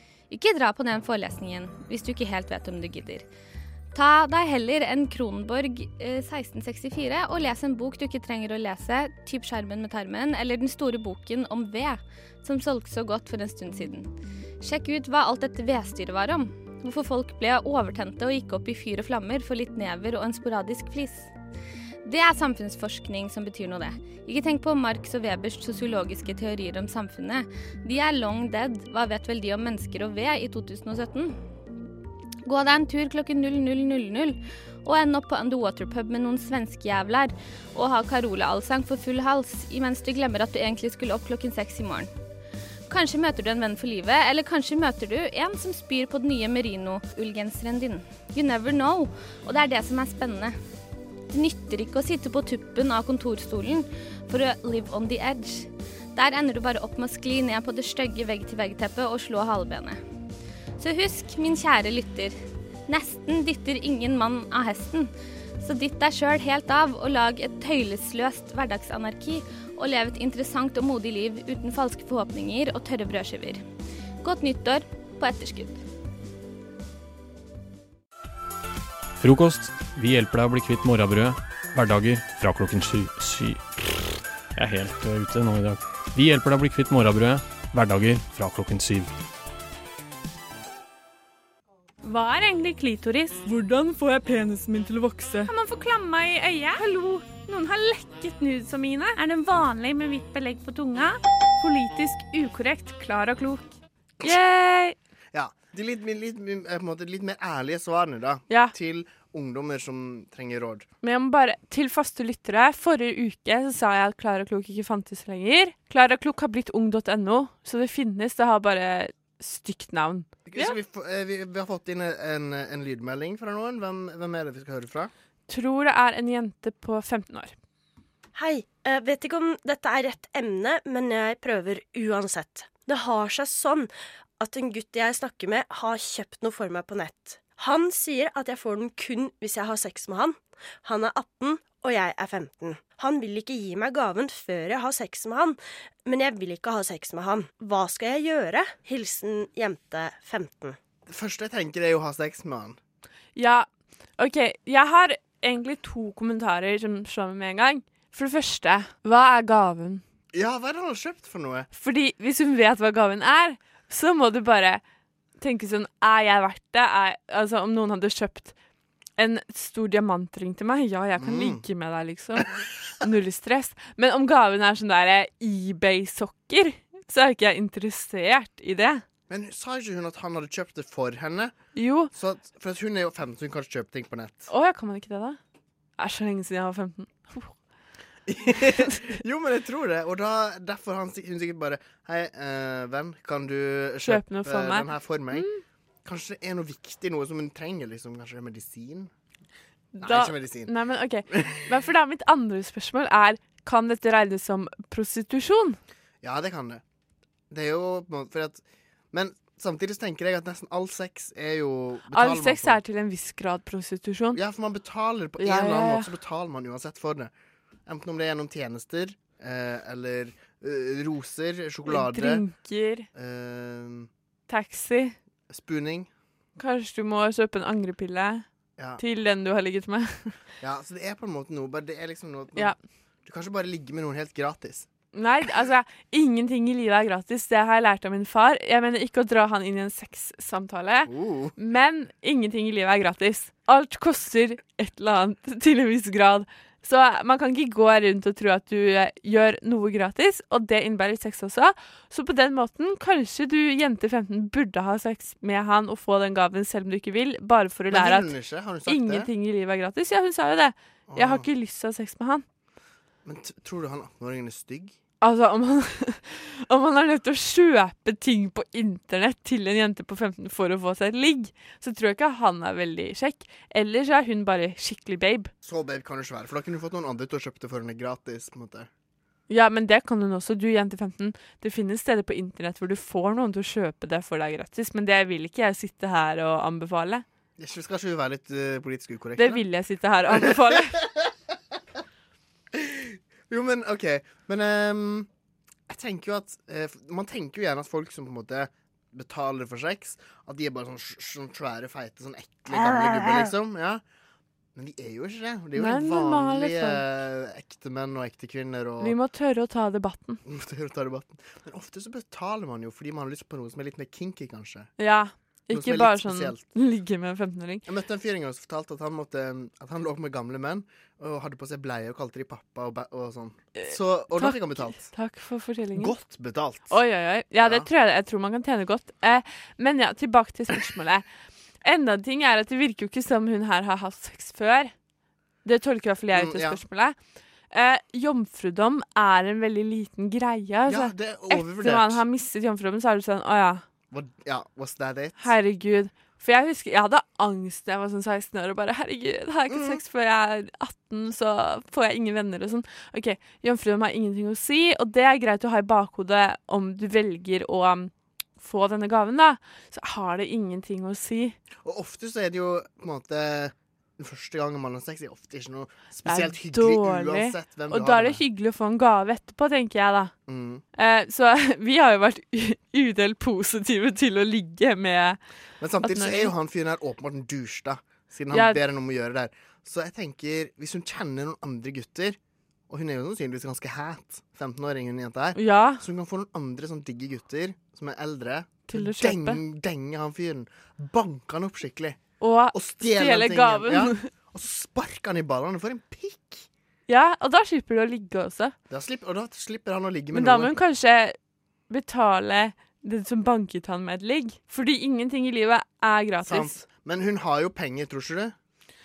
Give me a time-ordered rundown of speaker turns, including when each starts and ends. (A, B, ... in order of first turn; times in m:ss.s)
0:00.3-0:03.3 A
0:03.9-0:14.1 A
0:14.6-0:21.3 A
0:22.0-0:31.4 A
0:32.4-0:42.1 A
0:42.9-0:50.6 A
0:51.3-1:00.0 A
1:00.8-1:02.4 A
1:02.9-1:13.6 A
1:14.2-1:15.8 A
1:19.2-1:23.8 B
1:24.6-1:29.1 B
1:32.0-1:35.5 C
1:35.5-1:36.8 A
1:36.7-1:45.0 C
1:39.3-1:40.7 A
1:45.3-1:50.8 D
1:48.5-1:48.8 C
1:51.0-2:00.8 C
2:00.5-2:05.1 D
2:05.5-2:07.5 C
2:08.4-2:30.8 E
2:31.1-2:32.8 D
2:33.4-2:40.0 C
2:40.3-2:41.7 D
2:41.7-2:44.8 C
2:45.4-2:48.5 C
2:49.2-2:59.0 C
2:51.2-2:51.7 D
2:59.3-3:01.6 D
3:01.8-3:02.1 C
3:02.1-3:04.5 D
3:04.5-3:05.4 C
3:06.0-3:07.5 C
3:08.3-3:15.5 D
3:08.7-3:09.1 C
3:14.0-3:15.6 C
3:16.0-3:19.1 D
3:20.0-3:25.8 C
3:20.0-3:20.7 D
3:21.3-3:21.7 D
3:26.2-3:26.8 D
3:27.5-3:32.8 D
3:32.1-3:34.4 C
3:34.3-3:37.3 D
3:35.4-3:36.1 C
3:37.9-3:42.4 D
3:41.9-3:43.1 C
3:43.1-3:44.1 D
3:44.5-3:45.2 C
3:45.5-3:46.1 D
3:46.6-3:48.4 C
3:49.0-3:50.4 C
3:50.6-3:54.9 D
3:55.1-4:18.4 C
4:01.1-4:01.6 D
4:17.9-4:19.3 D
4:18.9-4:22.4 C
4:21.1-4:21.5 D
4:23.2-4:25.0 D
4:25.2-4:35.5 C
4:35.6-4:38.9 D
4:39.5-4:47.2 C
4:47.6-4:49.6 D
4:49.4-4:51.0 C
4:50.4-4:51.3 D
4:52.7-4:55.3 D
4:55.9-5:04.0 D
5:02.9-5:03.5 C
5:04.8-5:09.2 D
5:05.8-5:07.0 C
5:09.0-5:10.4 C
5:10.5-5:14.9 D
5:15.0-5:17.8 C
5:15.7-5:16.6 D
5:17.9-5:25.1 D
5:23.8-5:26.2 C
5:25.9-5:27.0 D
5:26.9-5:31.2 C
5:27.6-5:27.9 D
5:31.8-5:34.9 C
5:35.6-5:37.2 C
5:36.3-5:36.8 D
5:37.7-5:43.8 C
5:40.9-5:42.2 D
5:44.1-5:45.5 D
5:45.4-6:01.6 C
5:49.7-5:50.0 D
6:01.8-6:08.4 D
6:06.2-6:10.3 C
6:10.5-6:10.8 D
6:11.0-6:15.4 C
6:15.8-6:22.4 D
6:16.0-6:16.5 C
6:18.5-6:18.8 C
6:22.9-6:32.2 D
6:25.6-6:26.0 C
6:28.9-6:29.6 C
6:32.4-6:34.3 C
6:32.7-6:36.7 D
6:37.1-6:38.7 C
6:38.9-6:40.8 D
6:40.3-6:41.4 C
6:41.9-6:46.8 C
6:46.4-6:48.5 D